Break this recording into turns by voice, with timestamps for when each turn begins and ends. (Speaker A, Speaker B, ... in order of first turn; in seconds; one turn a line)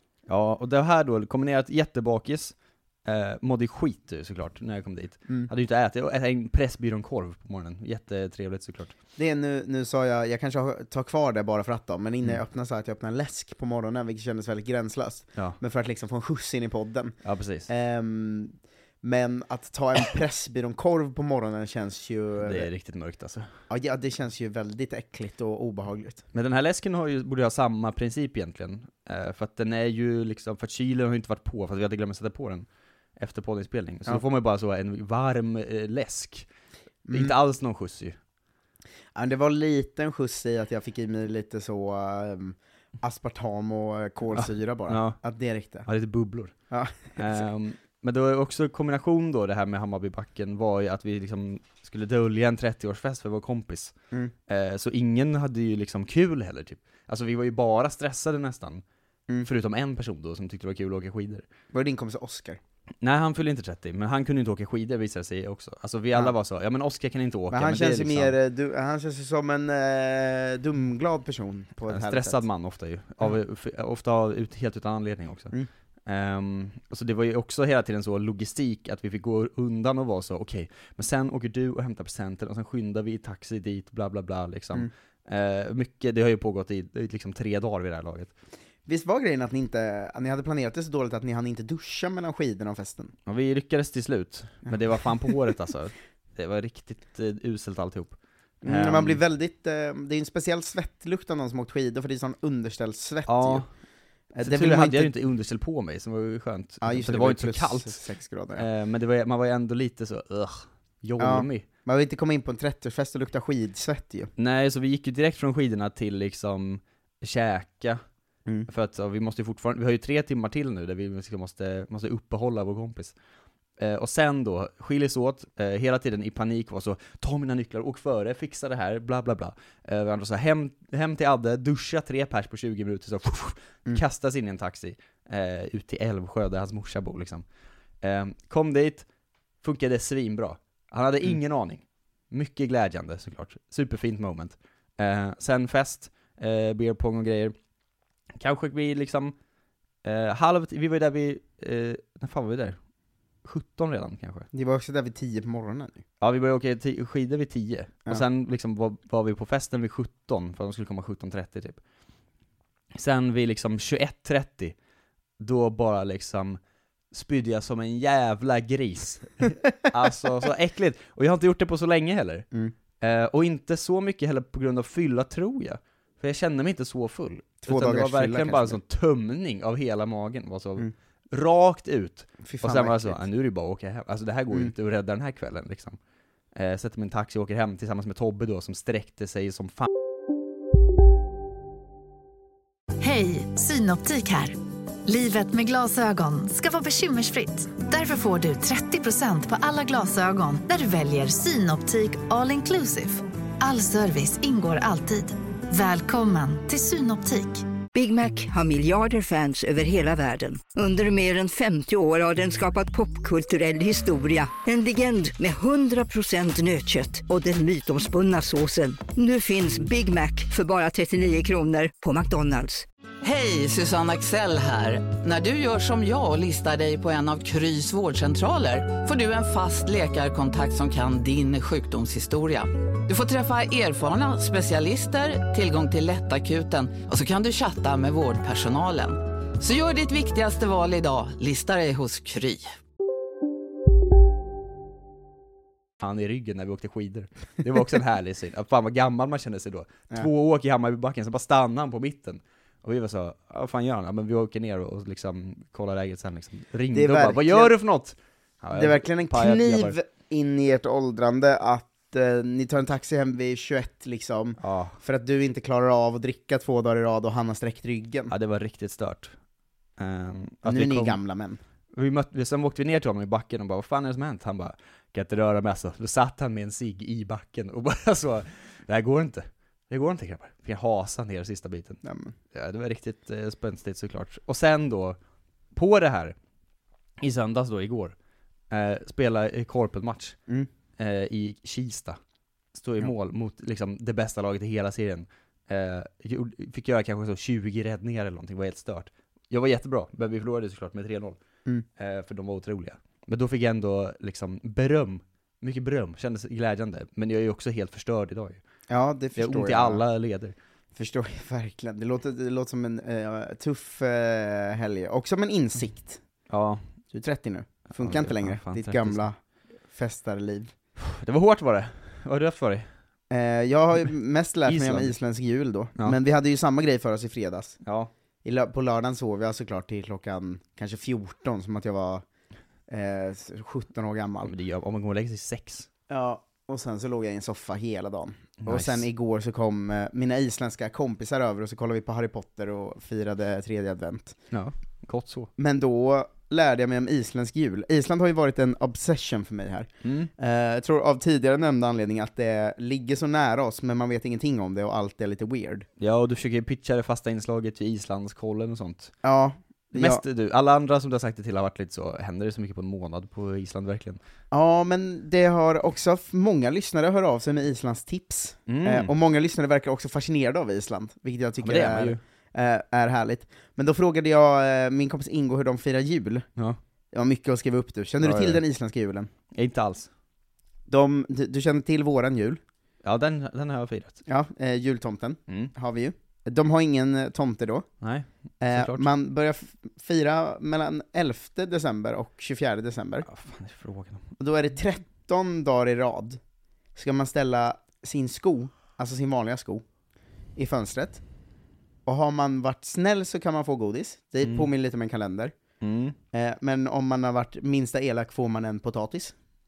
Speaker A: 0.3-2.5
Speaker A: 3.1-8.9
Speaker B: 9.2-17.2
Speaker A: 17.2-17.7
Speaker B: 17.7-22.7
Speaker A: 22.4-23.5
Speaker B: 23.7-26.2
Speaker A: 26.3-32.7
Speaker A: 33.2-36.5
Speaker B: 37.1-37.4
Speaker A: 37.1-38.2
Speaker B: 39.1-45.9
Speaker A: 44.3-45.2
Speaker A: 45.9-46.5
Speaker B: 46.7-47.4
Speaker A: 47.2-53.9
Speaker A: 54.5-58.8
Speaker A: 59.4-61.5
Speaker B: 61.7-62.6
Speaker A: 63.0-68.3
Speaker B: 67.5-72.5
Speaker A: 71.9-75.5
Speaker A: 76.1-88.3
Speaker B: 88.9-93.1
Speaker A: 93.3-99.2
Speaker B: 98.6-103.7
Speaker A: 103.3-103.7
Speaker B: 104.3-105.1
Speaker A: 104.4-108.0
Speaker B: 106.8-108.7
Speaker A: 108.5-111.6
Speaker B: 111.2-114.3
Speaker A: 114.4-118.0
Speaker A: 118.7-123.2
Speaker A: 123.8-137.4
Speaker A: 138.0-139.1
Speaker A: 139.6-147.5
Speaker A: 148.4-149.3
Speaker A: 150.1-152.8
Speaker A: 153.4-154.5
Speaker B: 154.5-156.0
Speaker A: 156.2-161.8
Speaker A: 163.0-164.8
Speaker A: 165.4-166.6
Speaker A: 167.1-172.4
Speaker A: 173.0-186.0
Speaker B: 177.7-178.8
Speaker B: 182.4-183.2
Speaker A: 186.6-189.9
Speaker C: 193.0-207.7
Speaker D: 207.9-222.9
Speaker E: 223.2-242.7
Speaker A: 246.0-260.0
Speaker B: 256.9-257.7
Speaker B: 258.7-268.3
Speaker A: 264.6-265.0
Speaker A: 268.3-269.3
Speaker A: 270.0-271.2
Speaker B: 270.6-271.6
Speaker A: 271.9-282.0
Speaker B: 282.0-282.4
Speaker A: 282.5-285.2
Speaker A: 285.8-286.4
Speaker A: 287.2-288.1
Speaker A: 288.7-290.4
Speaker A: 291.0-292.2
Speaker A: 292.8-301.4
Speaker A: 302.0-308.6
Speaker B: 308.9-310.0
Speaker A: 309.4-310.6
Speaker B: 310.9-316.2
Speaker A: 316.5-316.8
Speaker B: 317.1-319.4
Speaker A: 317.9-319.2
Speaker B: 319.9-320.7
Speaker A: 321.0-322.9
Speaker B: 323.3-327.8
Speaker A: 324.7-325.1
Speaker A: 327.8-328.1
Speaker B: 328.4-332.2
Speaker B: 332.9-334.5
Speaker A: 334.4-335.9
Speaker B: 336.1-344.4
Speaker A: 338.6-339.0
Speaker A: 344.5-345.5
Speaker B: 345.6-355.9
Speaker A: 350.0-350.3
Speaker A: 356.0-359.1
Speaker B: 359.2-360.2
Speaker A: 359.9-364.2
Speaker B: 364.5-376.5
Speaker A: 368.7-369.1
Speaker A: 371.6-372.2
Speaker B: 377.1-379.3
Speaker A: 378.2-378.6
Speaker A: 379.5-380.1
Speaker B: 380.9-382.6
Speaker A: 383.0-384.2
Speaker B: 384.3-387.9
Speaker A: 388.0-389.1
Speaker B: 388.6-393.3
Speaker A: 393.2-394.3
Speaker B: 394.4-396.4
Speaker B: 396.9-399.8
Speaker B: 400.6-401.2
Speaker B: 402.1-405.6
Speaker A: 404.4-404.7
Speaker A: 405.8-406.2
Speaker B: 406.3-409.3